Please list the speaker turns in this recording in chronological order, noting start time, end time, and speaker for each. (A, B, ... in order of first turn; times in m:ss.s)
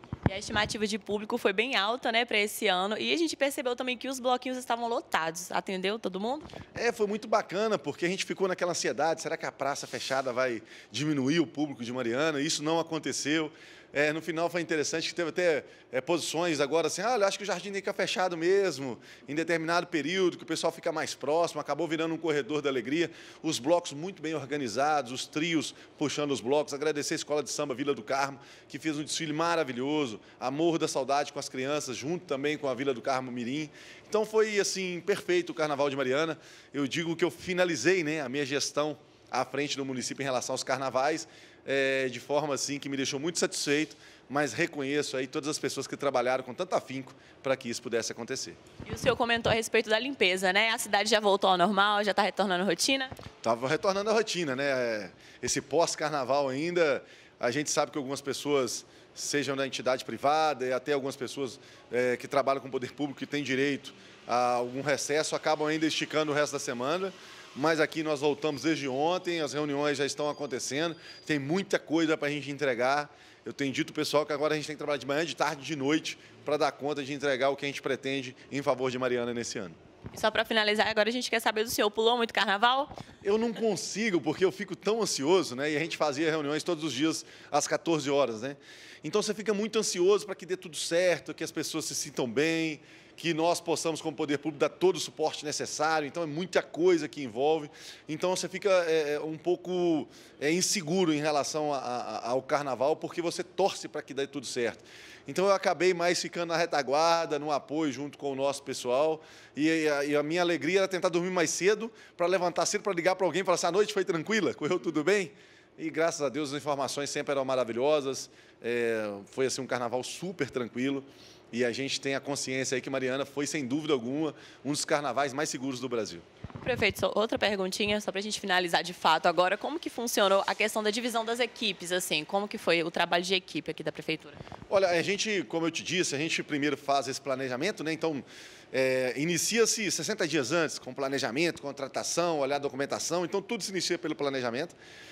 0:00.2-0:06.5 A
0:06.7-0:48.6 B
0:48.8-0:53.1 A
0:53.4-1:19.8 B
1:20.1-1:22.9 A
1:23.2-2:06.2 B
2:06.6-2:14.4 A
2:14.7-2:24.8 B